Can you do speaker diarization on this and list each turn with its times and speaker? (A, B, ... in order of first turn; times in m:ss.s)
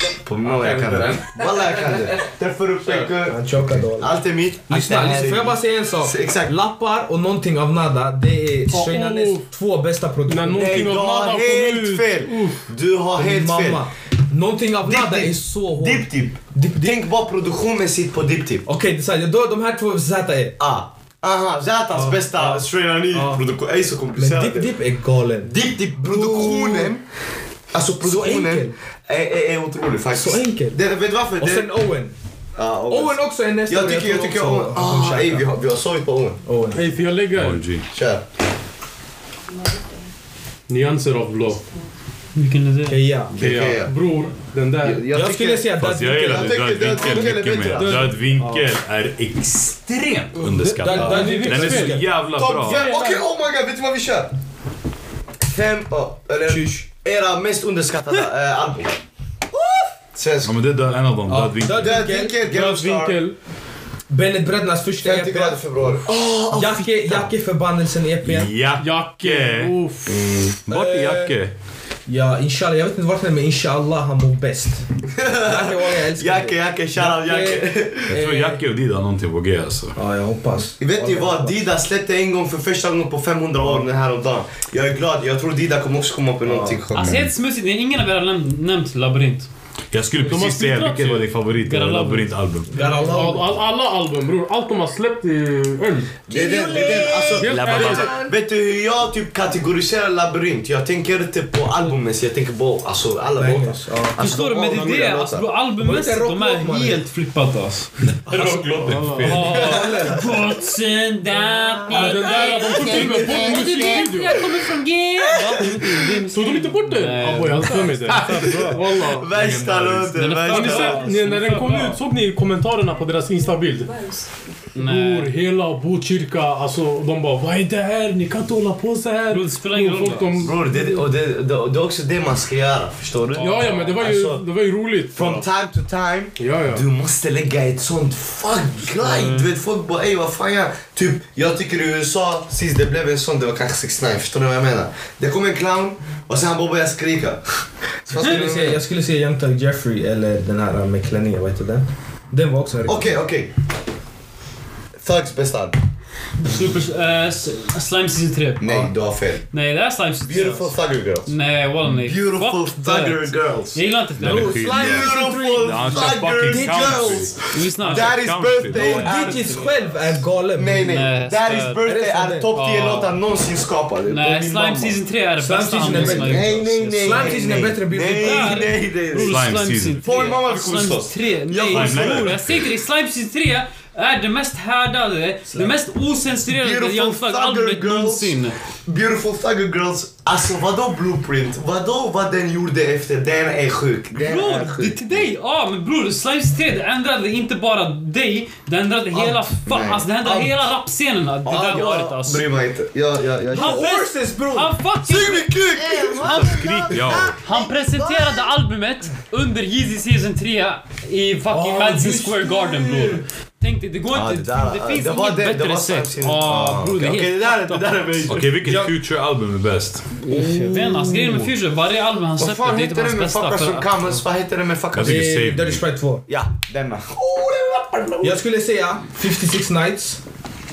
0:00.2-0:06.5 A
0:00.4-0:01.2 B
0:03.0-0:04.1 B
0:04.7-0:10.8 B
0:08.7-0:09.5 C
0:10.3-0:12.6 C
0:10.6-0:13.9 A
0:13.2-0:16.9 B
0:14.8-0:18.7 A
0:18.6-0:20.6 B
0:20.6-0:24.8 A
0:21.9-0:23.4 B
0:24.1-0:26.9 B
0:25.4-0:27.0 A
0:27.7-0:31.7 A
0:28.0-0:28.7 B
0:30.1-0:30.8 B
0:31.4-0:32.1 B
0:32.6-0:36.4 A
0:32.9-0:35.5 B
0:36.4-0:36.9 B
0:36.7-0:37.6 C
0:37.4-0:37.8 D
0:37.9-0:38.2 A
0:40.7-0:41.6 C
0:42.3-0:43.0 E
0:42.9-0:43.4 B
0:43.3-0:43.9 A
0:43.4-0:45.1 C
0:44.8-0:48.1 A
0:45.1-0:48.6 B
0:45.7-0:52.9 D
0:47.7-0:48.1 C
0:50.5-0:52.0 C
0:50.6-0:52.0 B
0:52.3-0:54.3 A
0:52.6-0:53.2 C
0:55.5-0:59.0 A
0:56.5-0:56.8 B
1:00.1-1:00.5 A
1:00.4-1:02.1 D
1:01.3-1:02.4 B
1:01.8-1:03.2 A
1:02.4-1:03.3 C
1:04.1-1:06.0 B
1:05.0-1:07.3 A
1:06.5-1:08.5 B
1:08.2-1:09.7 D
1:08.8-1:10.2 C
1:10.6-1:11.5 D
1:10.7-1:11.3 B
1:12.1-1:18.6 B
1:15.1-1:18.2 A
1:18.1-1:20.0 D
1:20.0-1:21.6 B
1:20.8-1:27.2 A
1:26.4-1:26.8 B
1:26.9-1:29.5 E
1:26.9-1:27.3 D
1:29.9-1:33.0 D
1:30.2-1:31.3 C
1:31.6-1:32.8 E
1:32.7-1:33.5 B
1:32.8-1:36.2 C
1:36.3-1:45.5 A
1:36.3-1:38.3 B
1:37.2-1:38.3 C
1:37.6-1:38.0 D
1:43.4-1:44.2 B
1:44.2-1:47.9 E
1:45.8-1:47.0 B
1:48.1-1:49.6 D
1:48.3-1:50.3 B
1:48.8-1:49.6 C
1:49.2-1:58.3 E
1:49.6-1:50.2 A
1:51.9-1:54.4 C
1:52.4-1:53.6 A
1:55.2-1:55.9 A
1:56.3-1:59.3 C
1:58.1-2:01.1 A
1:59.3-2:00.3 D
2:00.1-2:02.0 E
2:00.4-2:04.0 C
2:04.7-2:05.3 E
2:04.8-2:10.8 C
2:09.3-2:10.5 E
2:10.4-2:14.4 A
2:13.3-2:14.0 E
2:13.4-2:15.4 C
2:15.1-2:28.8 A
2:16.4-2:16.8 C
2:19.0-2:19.4 E
2:28.1-2:33.2 B
2:32.8-2:33.5 A
2:35.0-2:35.8 A
2:36.4-2:38.9 E
2:38.6-2:39.4 A
2:39.5-2:44.7 E
2:40.2-2:41.3 A
2:41.8-2:43.9 A
2:44.2-2:49.1 D
2:44.2-2:47.3 B
2:44.7-2:49.9 A
2:47.5-2:48.2 E
2:48.7-2:50.9 B
2:50.5-2:55.0 A
2:50.8-2:51.9 E
2:51.8-2:52.5 B
2:52.5-2:53.1 E
2:54.1-2:57.4 E
2:55.4-2:58.7 B
2:55.7-2:59.4 A
2:58.1-3:08.6 E
2:59.2-3:00.0 D
3:00.0-3:02.4 A
3:01.7-3:02.6 D
3:06.4-3:15.3 A
3:14.2-3:22.4 E
3:19.1-3:20.1 A
3:20.2-3:20.6 B
3:21.4-3:23.8 A
3:23.5-3:24.7 B
3:23.5-3:25.6 E
3:25.0-3:27.3 A
3:25.8-3:28.5 B
3:26.2-3:38.0 E
3:26.2-3:27.4 D
3:31.5-3:33.2 B
3:34.1-3:38.7 A
3:38.3-3:40.2 D
3:38.6-3:38.9 B
3:40.2-3:41.0 B
3:40.3-3:41.4 A
3:40.3-3:43.9 E
3:42.4-3:45.3 A
3:44.9-3:45.8 D
3:45.0-3:46.2 B
3:46.3-3:48.4 A
3:48.2-3:50.2 B